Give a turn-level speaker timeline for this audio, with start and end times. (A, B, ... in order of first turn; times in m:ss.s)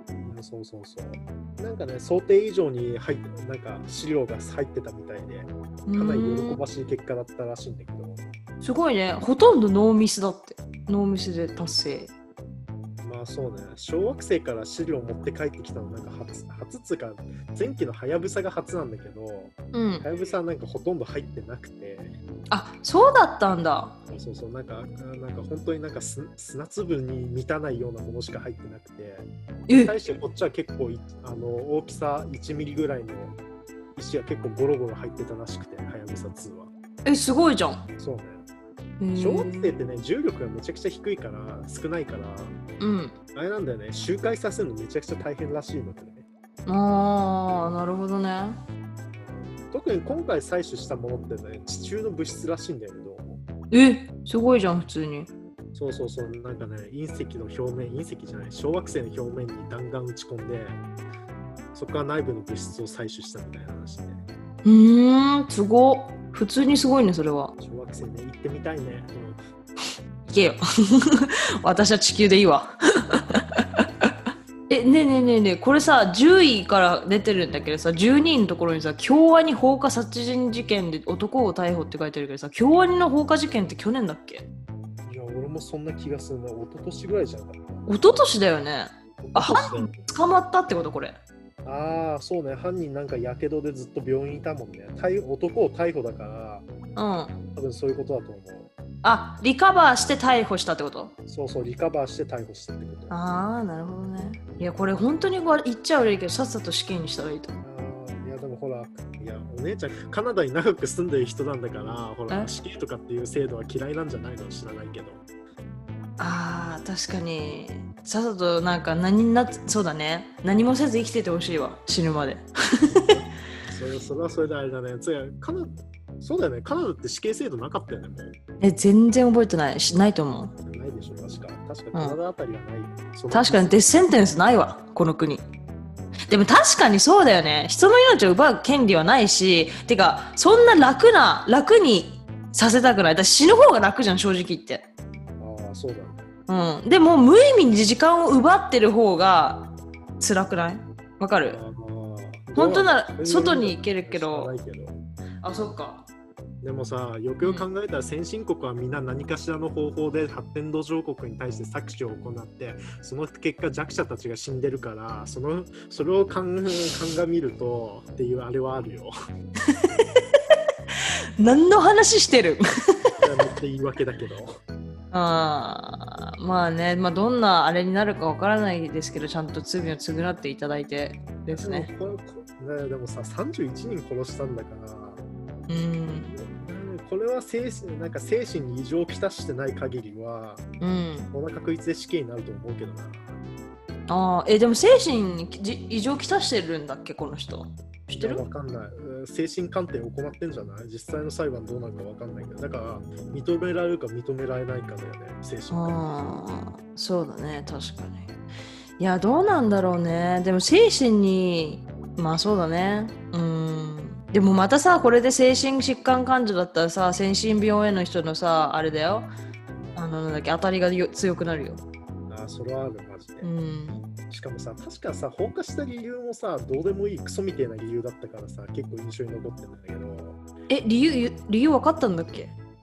0:00.2-0:08.3 A
0:05.9-0:06.6 B
0:08.6-0:12.1 B
0:13.0-0:22.1 A
0:19.7-0:20.1 B
0:22.5-0:24.0 B
0:24.1-0:33.4 A
0:29.7-0:30.0 B
0:34.0-0:36.7 A
0:37.0-0:37.8 B
0:38.0-0:38.4 A
0:39.0-0:39.7 B
0:39.2-0:42.6 A
0:42.8-0:43.2 B
0:43.3-0:46.2 A
0:46.7-0:48.6 B
0:49.1-0:53.4 A
0:53.7-0:55.3 B
0:55.7-1:00.8 A
1:01.7-1:04.2 A
1:04.6-1:07.5 B
1:07.6-1:09.4 A
1:10.3-1:13.4 B
1:14.7-1:24.5 B
1:25.0-1:28.3 A
1:27.9-1:31.2 B
1:29.2-1:30.1 A
1:31.6-1:36.7 A
1:37.0-1:37.4 B
1:37.5-1:38.7 A
1:39.0-1:41.1 B
1:41.3-1:43.2 A
1:43.1-1:47.6 B
1:47.6-1:55.2 A
1:56.2-2:03.0 B
2:02.9-2:08.4 A
2:08.6-2:10.5 B
2:10.7-2:13.8 A
2:13.3-2:15.5 B
2:16.3-2:24.9 B
2:25.4-2:26.3 A
2:26.5-2:31.6 B
2:31.5-2:35.0 A
2:32.6-2:34.5 B
2:35.4-2:36.1 B
2:36.6-2:49.1 A
2:37.4-2:37.7 B
2:49.7-2:50.2 B
2:51.4-2:52.6 B
2:53.2-2:54.6 A
2:55.1-3:01.9 B
3:01.5-3:05.2 A
3:05.7-3:06.4 B
3:06.3-3:10.6 A
3:10.8-3:11.3 B
3:11.3-3:13.4 A
3:14.1-3:18.5 B
3:18.1-3:26.0 A
3:25.7-3:28.3 B
3:29.0-3:39.3 B
3:39.7-3:40.1 A
3:40.0-3:41.8 B
3:42.3-3:43.5 A
3:43.4-3:44.1 B
3:44.3-3:50.4 A
3:50.7-3:52.5 B